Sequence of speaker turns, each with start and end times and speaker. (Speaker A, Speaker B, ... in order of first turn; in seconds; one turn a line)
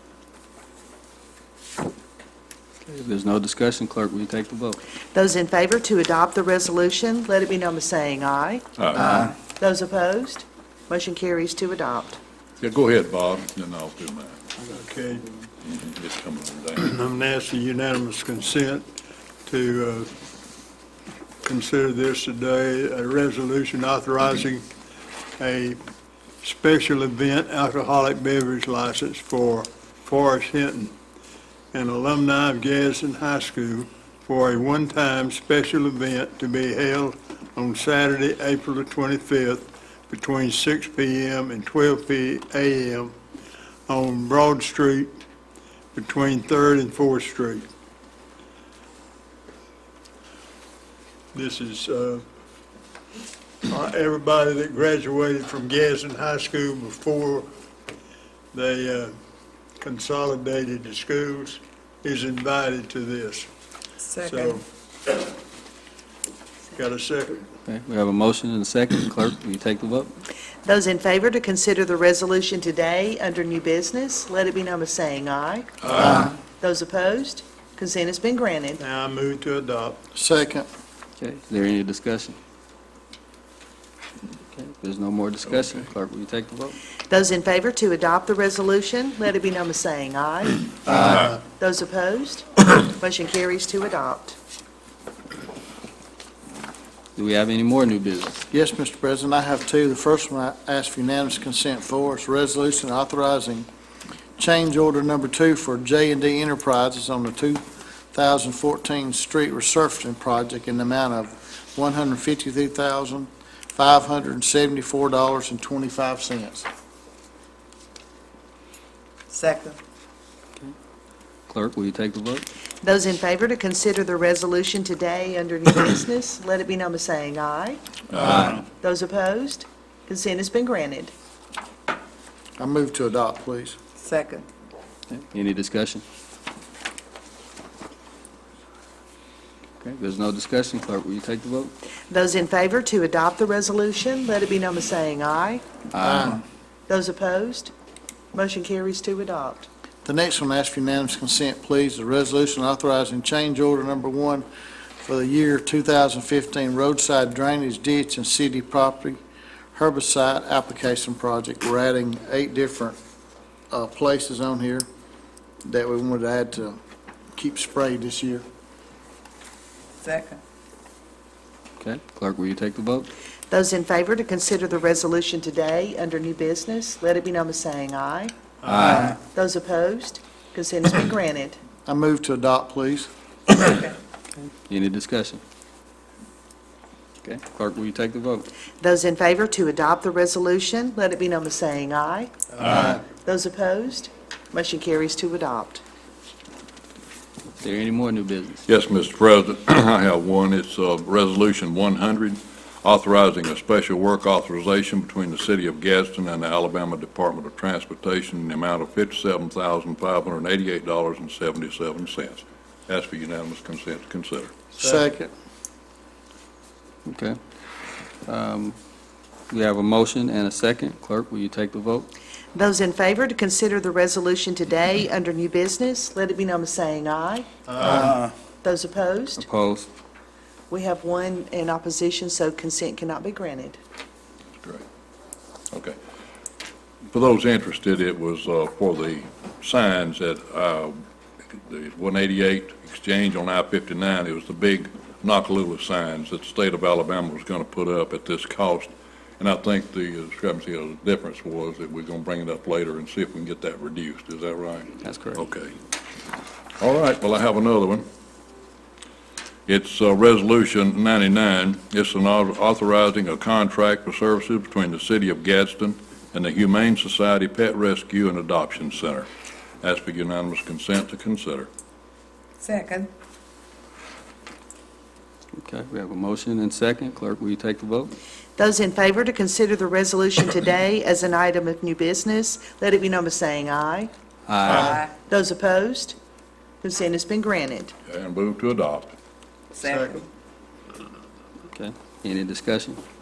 Speaker A: 2.9-4.8
Speaker B: 5.1-12.2
Speaker C: 8.8-9.1
Speaker C: 12.6-14.5
Speaker D: 14.7-15.4
Speaker C: 15.6-17.0
Speaker D: 16.8-18.9
Speaker D: 19.5-20.1
Speaker D: 21.4-24.7
Speaker D: 25.4-25.8
Speaker D: 26.4-30.9
Speaker D: 31.7-43.1
Speaker D: 43.9-45.1
Speaker D: 45.9-47.7
Speaker D: 51.3-52.2
Speaker D: 53.6-57.5
Speaker D: 58.5-59.1
Speaker D: 59.8-63.5
Speaker E: 64.1-64.4
Speaker D: 64.2-64.7
Speaker D: 66.7-67.5
Speaker A: 67.7-70.1
Speaker B: 70.7-78.8
Speaker D: 78.8-80.0
Speaker F: 80.1-80.7
Speaker A: 81.2-82.4
Speaker A: 84.5-86.8
Speaker B: 87.1-94.4
Speaker A: 90.9-91.3
Speaker A: 97.2-98.4
Speaker F: 98.5-103.7
Speaker F: 104.4-107.6
Speaker F: 108.1-116.7
Speaker E: 119.3-119.8
Speaker A: 121.5-122.5
Speaker B: 122.8-127.8
Speaker C: 128.1-128.4
Speaker A: 128.2-128.6
Speaker B: 128.6-131.1
Speaker F: 132.6-133.8
Speaker E: 134.0-134.5
Speaker A: 135.1-136.0
Speaker A: 139.8-141.7
Speaker B: 142.1-145.6
Speaker F: 145.9-146.4
Speaker A: 146.0-146.3
Speaker B: 146.9-147.7
Speaker B: 148.3-149.7
Speaker F: 150.1-154.5
Speaker F: 155.0-159.2
Speaker F: 159.7-163.0
Speaker F: 163.7-164.9
Speaker F: 165.7-166.8
Speaker F: 167.3-168.4
Speaker E: 170.0-170.4
Speaker A: 171.8-173.1
Speaker B: 173.5-178.3
Speaker A: 178.7-179.2
Speaker B: 179.2-181.6
Speaker F: 181.9-183.1
Speaker A: 184.7-185.4
Speaker A: 187.2-188.5
Speaker B: 188.8-195.8
Speaker A: 197.6-198.7
Speaker C: 198.7-214.5
Speaker F: 214.8-215.3
Speaker A: 217.1-217.4
Speaker A: 218.3-218.8
Speaker A: 219.5-222.1
Speaker B: 222.6-227.9
Speaker B: 228.6-229.4
Speaker A: 229.4-229.9
Speaker B: 230.7-233.8
Speaker C: 235.7-236.0
Speaker C: 237.1-241.0
Speaker C: 241.5-255.7
Speaker A: 255.0-255.5
Speaker C: 256.8-258.1
Speaker C: 259.7-269.3
Speaker C: 269.8-271.7
Speaker E: 272.6-273.1
Speaker A: 275.6-278.1
Speaker B: 278.6-284.1
Speaker A: 284.5-285.0
Speaker B: 285.2-286.2
Speaker B: 286.8-287.9
Speaker C: 288.1-289.1
Speaker D: 289.8-290.2
Speaker A: 291.7-293.0